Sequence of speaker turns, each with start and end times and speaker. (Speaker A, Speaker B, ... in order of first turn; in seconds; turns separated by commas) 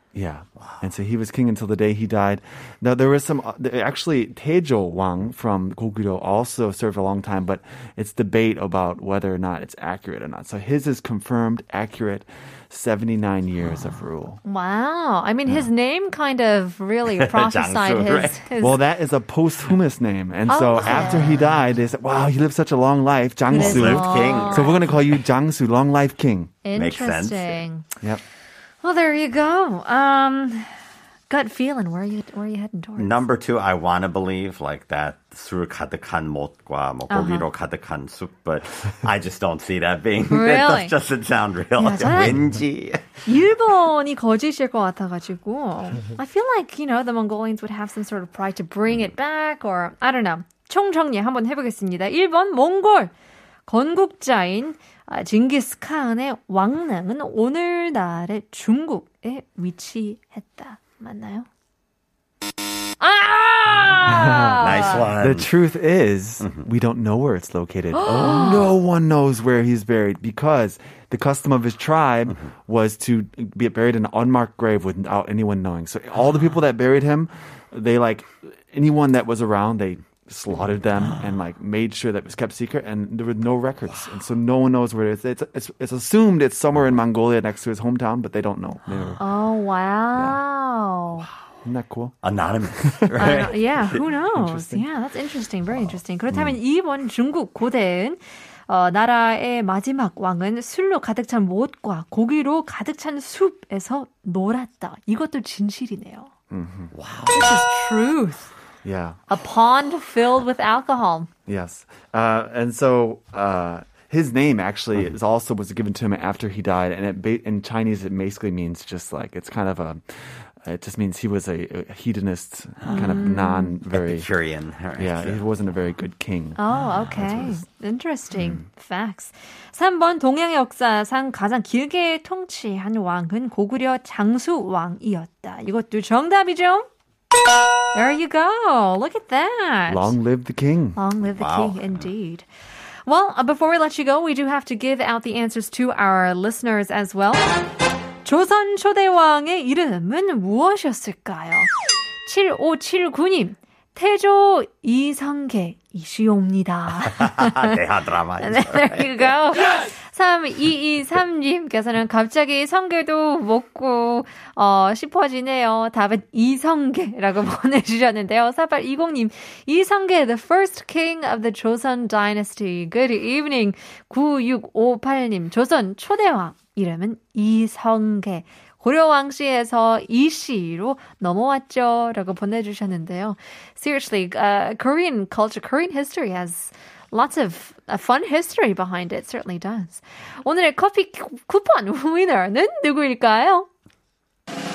Speaker A: 0.1-14.4, Speaker B: 14.4-18.8, Speaker C: 17.1-18.4, Speaker A: 18.6-26.5, Speaker B: 20.5-21.4, Speaker B: 23.5-24.8, Speaker C: 23.5-24.9, Speaker B: 26.6-27.9, Speaker C: 26.7-27.6, Speaker B: 28.8-30.7, Speaker B: 31.3-33.2, Speaker C: 33.0-43.2, Speaker B: 37.1-37.5, Speaker B: 40.3-40.9, Speaker B: 41.8-42.5, Speaker B: 43.2-53.1, Speaker B: 53.7-61.5, Speaker B: 63.0-65.1, Speaker A: 64.0-89.2, Speaker C: 64.5-65.5, Speaker C: 66.4-66.7, Speaker B: 67.9-68.6, Speaker C: 68.0-68.7, Speaker C: 88.9-89.2, Speaker B: 89.2-91.3, Speaker A: 90.1-90.4, Speaker A: 91.6-92.2, Speaker C: 92.2-94.0, Speaker A: 92.8-94.9, Speaker B: 93.2-106.3, Speaker A: 95.8-96.5, Speaker A: 106.5-106.9, Speaker C: 106.9-107.6, Speaker B: 107.3-108.5, Speaker A: 108.8-109.2, Speaker B: 109.3-111.3, Speaker A: 111.5-120.0, Speaker A: 120.6-124.3, Speaker C: 122.8-123.2, Speaker B: 122.9-123.8, Speaker C: 123.9-126.0, Speaker A: 125.0-126.6, Speaker B: 126.5-136.9, Speaker C: 126.7-127.5, Speaker A: 127.2-127.5, Speaker B: 137.9-140.2, Speaker A: 139.9-141.0, Speaker B: 140.9-142.5, Speaker C: 141.2-142.1, Speaker B: 143.1-147.6, Speaker B: 148.2-151.7, Speaker B: 152.2-157.8, Speaker C: 157.1-159.3, Speaker B: 158.4-193.7